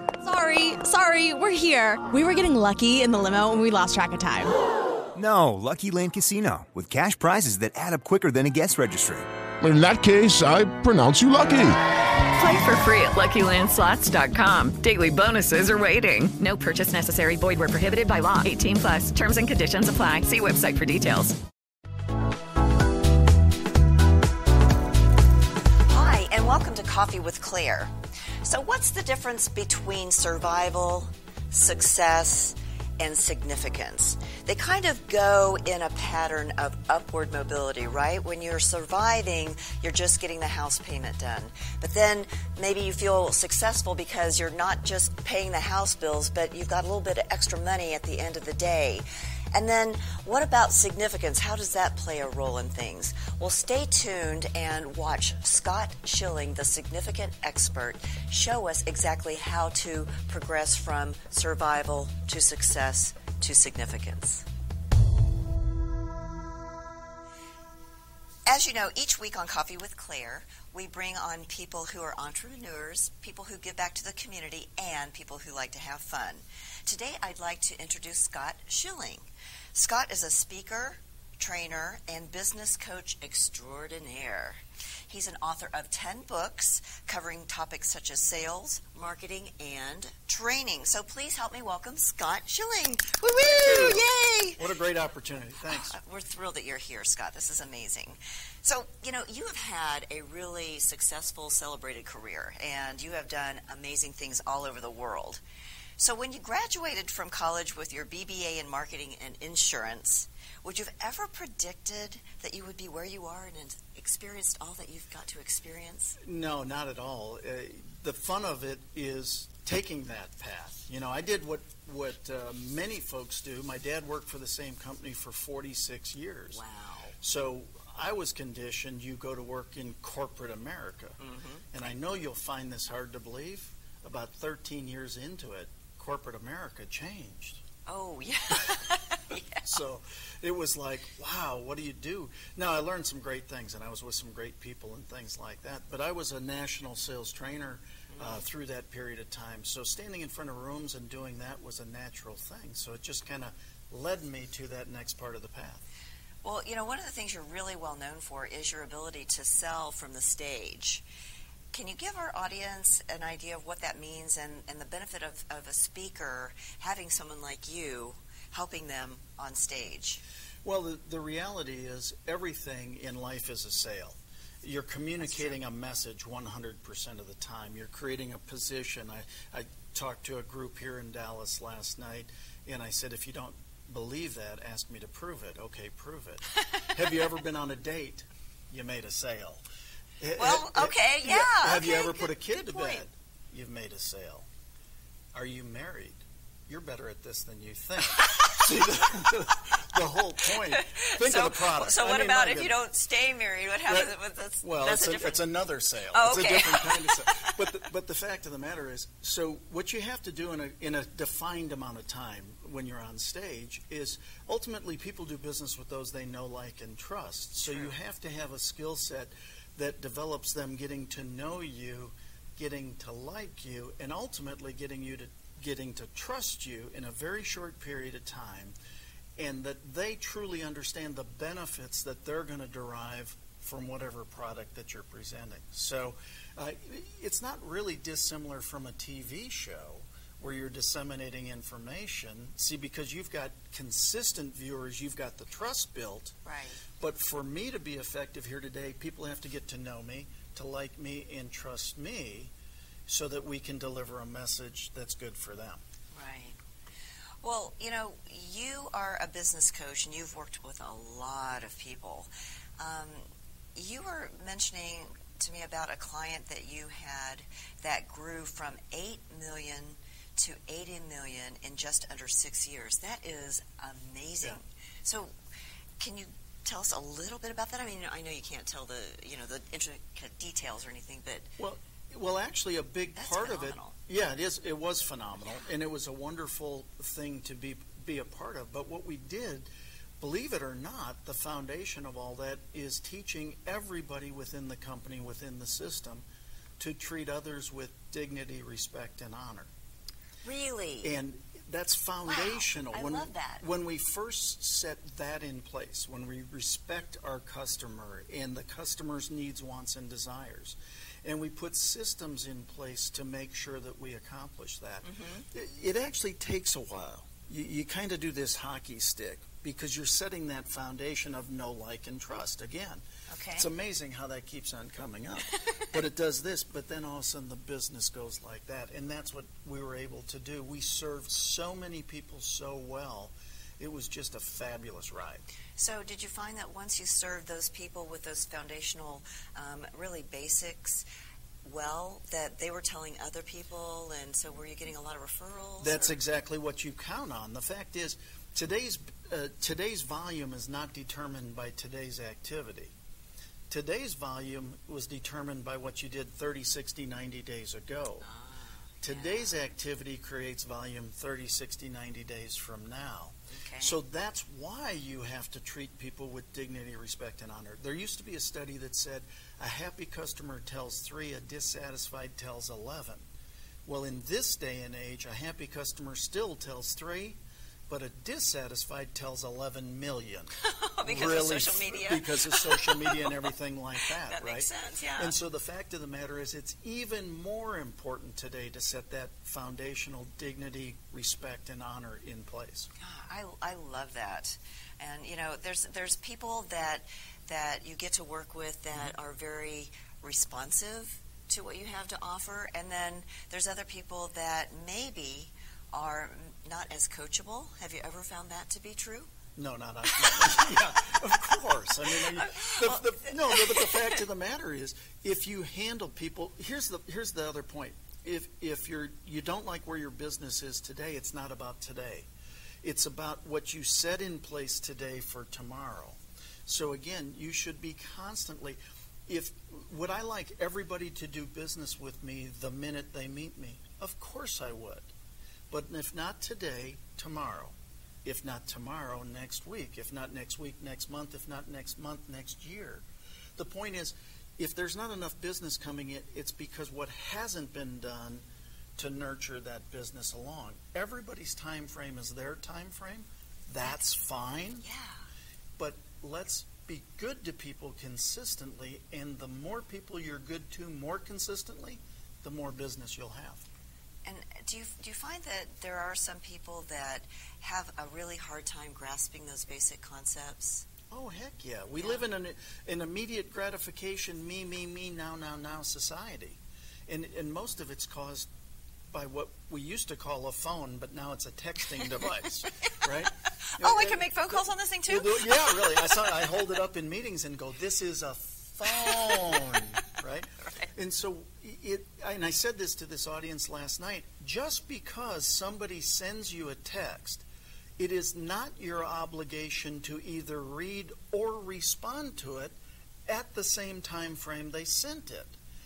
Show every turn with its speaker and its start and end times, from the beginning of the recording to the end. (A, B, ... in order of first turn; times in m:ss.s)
0:00.2-0:04.5 A
0:05.1-0:09.3 B
0:09.6-0:11.8 C
0:12.3-0:21.4 D
0:25.9-0:27.9 E
0:28.4-1:04.4 E
1:08.5-1:34.6 E
1:33.4-1:34.1 F
1:34.6-1:36.0 F
1:35.7-1:45.4 E
1:46.0-1:56.2 E
1:56.2-2:06.6 F
2:06.5-2:07.2 E
2:07.2-2:11.2 F
2:11.2-2:11.6 E
2:11.7-2:17.6 F
2:17.9-2:19.7 E
2:19.6-2:35.8 F
2:28.1-2:28.4 E
2:36.4-2:41.0 E
2:41.7-2:50.2 E
2:50.6-3:09.6 F
2:55.2-2:55.6 E
3:10.2-3:14.5 F
3:10.4-3:13.1 E
3:15.3-3:22.7 F
3:20.7-3:25.5 E
3:23.9-3:48.8 F
3:26.1-3:27.5 E
3:37.6-3:37.9 E
3:49.4-4:06.4 F
4:06.4-4:06.8 E
4:07.0-4:12.5 F
4:13.1-4:15.8 F
4:16.1-4:16.6 E
4:17.4-4:35.3 E
4:36.0-4:41.5 E
4:41.6-4:49.7 F
4:43.1-4:44.0 E
4:50.2-4:56.2 F
4:56.8-4:59.7 F
5:00.4-5:01.1 E
5:01.0-5:23.0 F
5:02.2-5:03.6 E
5:15.0-5:15.4 E
5:23.3-5:23.7 E
5:23.6-5:35.4 F
5:35.8-5:41.1 E
5:41.6-5:46.2 E
5:45.8-5:52.9 F
5:53.7-5:58.2 F
5:58.2-5:59.6 E
5:59.0-6:13.2 F
6:03.5-6:04.0 E
6:13.8-6:20.5 F
6:20.7-6:23.2 E
6:21.0-6:32.9 F
6:24.2-6:25.3 E
6:33.0-6:49.3 E
6:49.6-7:02.3 F
6:50.2-6:50.5 E
6:52.1-6:54.1 E
7:02.8-7:15.1 F
7:15.7-7:23.0 F
7:23.6-7:28.4 F
7:29.0-7:34.9 F
7:34.8-7:35.2 E
7:35.8-7:43.6 F
7:44.2-7:50.8 E
7:51.1-7:58.5 F
7:52.0-7:52.2 E
7:59.1-8:17.4 F
8:03.8-8:06.2 E
8:08.9-8:09.8 E
8:10.6-8:10.9 E
8:18.0-8:22.8 F
8:23.3-8:25.6 F